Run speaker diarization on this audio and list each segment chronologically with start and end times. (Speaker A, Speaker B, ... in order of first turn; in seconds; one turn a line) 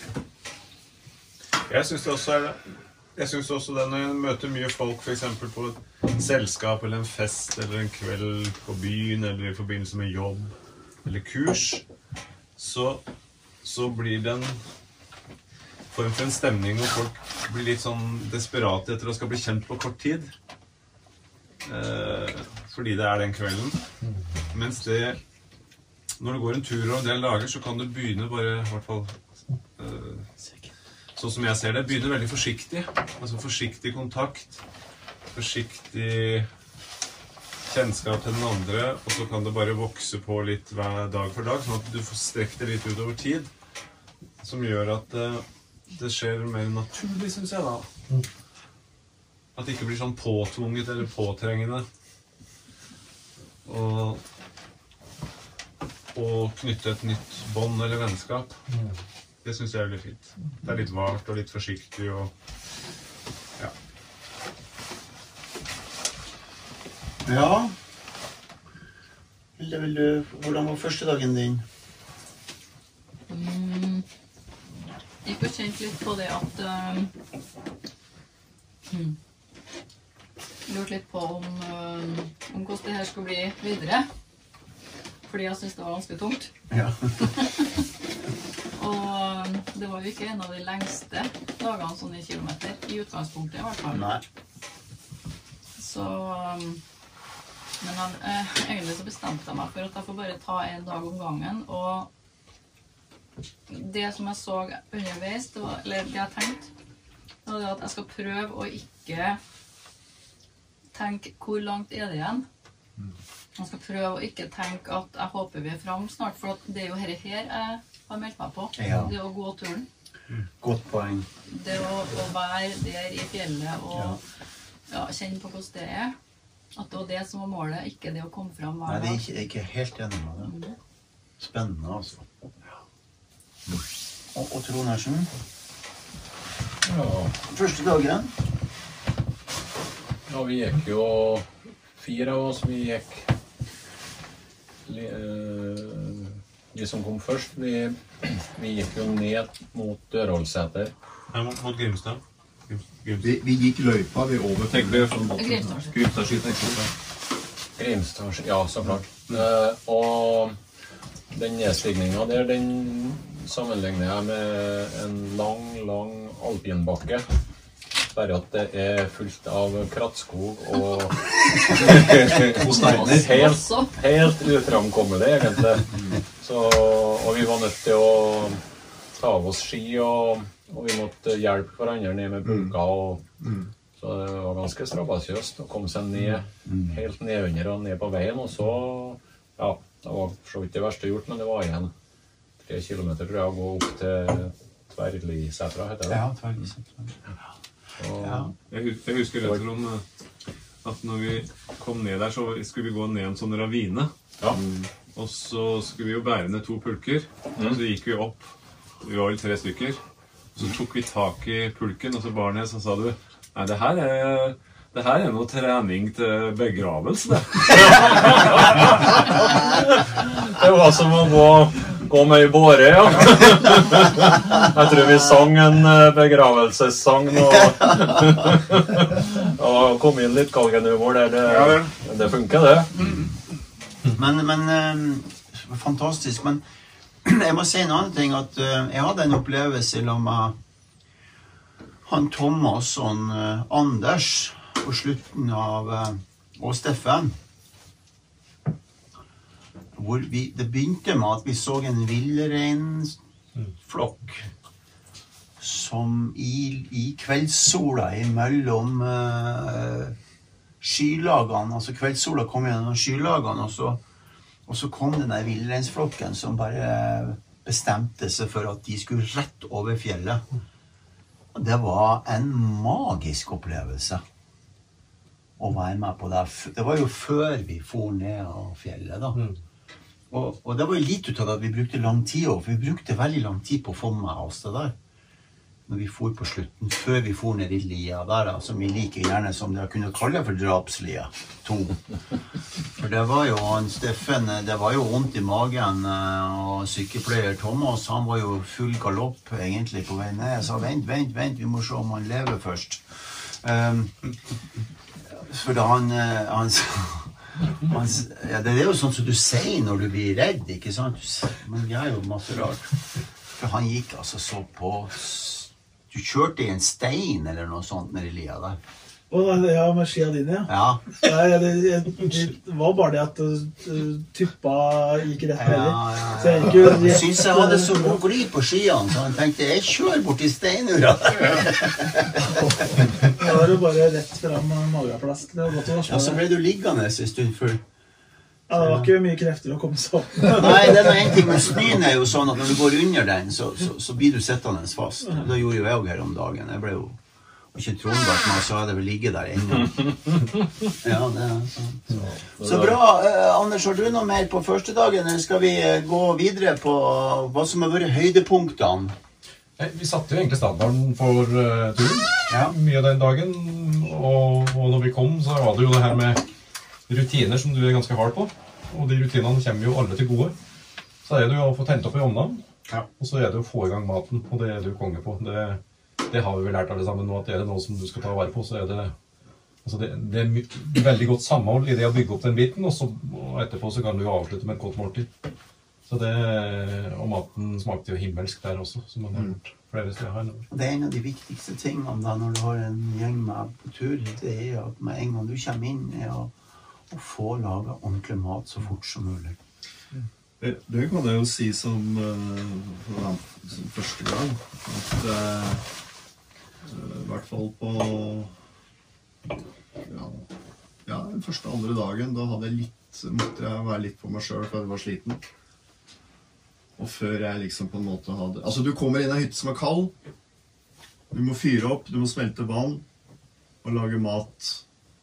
Speaker A: 1.7-11.8
Speaker A: 12.6-13.0
Speaker A: 13.6-14.6
Speaker A: 15.9-20.3
Speaker A: 21.6-23.8
Speaker A: 24.5-25.2
Speaker A: 26.2-29.1
Speaker A: 29.8-30.3
Speaker A: 31.2-34.6
Speaker A: 35.3-36.5
Speaker A: 37.7-43.5
Speaker A: 44.4-47.9
Speaker A: 49.5-51.9
Speaker A: 53.6-54.2
Speaker A: 56.1-58.5
Speaker B: 58.7-59.0
Speaker A: 59.4-62.3
Speaker C: 67.3-67.7
Speaker C: 69.6-71.6
Speaker D: 73.3-74.1
Speaker D: 75.2-77.1
Speaker D: 78.9-79.2
Speaker D: 80.7-84.1
Speaker D: 85.3-86.5
Speaker C: 86.7-87.2
Speaker D: 87.2-87.7
Speaker D: 88.8-94.1
Speaker C: 93.9-94.2
Speaker D: 95.8-96.8
Speaker D: 97.8-102.1
Speaker D: 103.7-106.7
Speaker D: 107.5-109.4
Speaker D: 110.9-112.5
Speaker D: 113.6-119.9
Speaker C: 118.8-119.1
Speaker C: 120.6-121.3
Speaker D: 121.5-124.2
Speaker C: 123.9-124.2
Speaker D: 124.9-126.1
Speaker D: 126.8-129.2
Speaker C: 128.9-130.5
Speaker D: 130.4-130.8
Speaker C: 131.4-132.2
Speaker C: 134.3-135.3
Speaker E: 136.8-137.3
Speaker C: 137.5-138.3
Speaker E: 140.3-143.3
Speaker E: 144.9-150.9
Speaker A: 151.3-153.3
Speaker F: 153.2-156.8
Speaker A: 154.7-155.1
Speaker D: 155.3-156.2
Speaker A: 155.9-156.9
Speaker E: 157.8-160.6
Speaker E: 161.3-167.2
Speaker E: 168.1-178.6
Speaker D: 172.6-173.9
Speaker F: 172.6-173.4
Speaker F: 175.9-176.2
Speaker E: 179.2-183.2
Speaker F: 182.4-182.8
Speaker F: 183.4-183.7
Speaker E: 184.0-191.9
Speaker E: 192.6-196.3
Speaker C: 196.1-197.1
Speaker E: 198.0-198.5
Speaker C: 198.2-198.5
Speaker A: 198.7-200.0
Speaker A: 200.8-204.1
Speaker F: 204.5-204.9
Speaker A: 205.2-210.0
Speaker E: 207.6-207.8
Speaker A: 210.6-219.0
Speaker E: 217.7-233.0
Speaker A: 231.4-231.9
Speaker C: 234.1-236.6
Speaker C: 237.2-240.6
Speaker C: 242.1-247.3
Speaker C: 250.0-253.2
Speaker C: 253.8-254.5
Speaker C: 255.6-260.1
Speaker C: 260.8-264.0
Speaker C: 264.7-270.4
Speaker C: 271.5-274.2
Speaker C: 275.6-279.4
Speaker C: 280.3-284.9
Speaker C: 285.9-292.0
Speaker C: 293.0-304.1
Speaker C: 305.4-313.0
Speaker C: 313.6-318.8
Speaker G: 319.3-328.2
Speaker C: 320.7-321.1
Speaker C: 325.6-332.4
Speaker G: 333.3-336.5
Speaker C: 336.1-337.8
Speaker G: 338.7-341.9
Speaker C: 338.8-339.1
Speaker C: 340.6-347.2
Speaker C: 347.7-350.4
Speaker C: 351.0-359.1
Speaker E: 352.1-353.0
Speaker B: 359.8-366.4
Speaker C: 362.5-362.8
Speaker B: 367.1-370.6
Speaker B: 371.2-372.6
Speaker B: 373.2-379.1
Speaker B: 379.8-385.3
Speaker B: 386.1-390.7
Speaker C: 390.7-396.5
Speaker C: 397.1-399.6
Speaker F: 400.6-405.9
Speaker F: 406.8-408.6
Speaker F: 410.0-410.5
Speaker F: 411.1-415.4
Speaker F: 417.0-420.1
Speaker F: 421.3-423.0
Speaker F: 423.8-424.8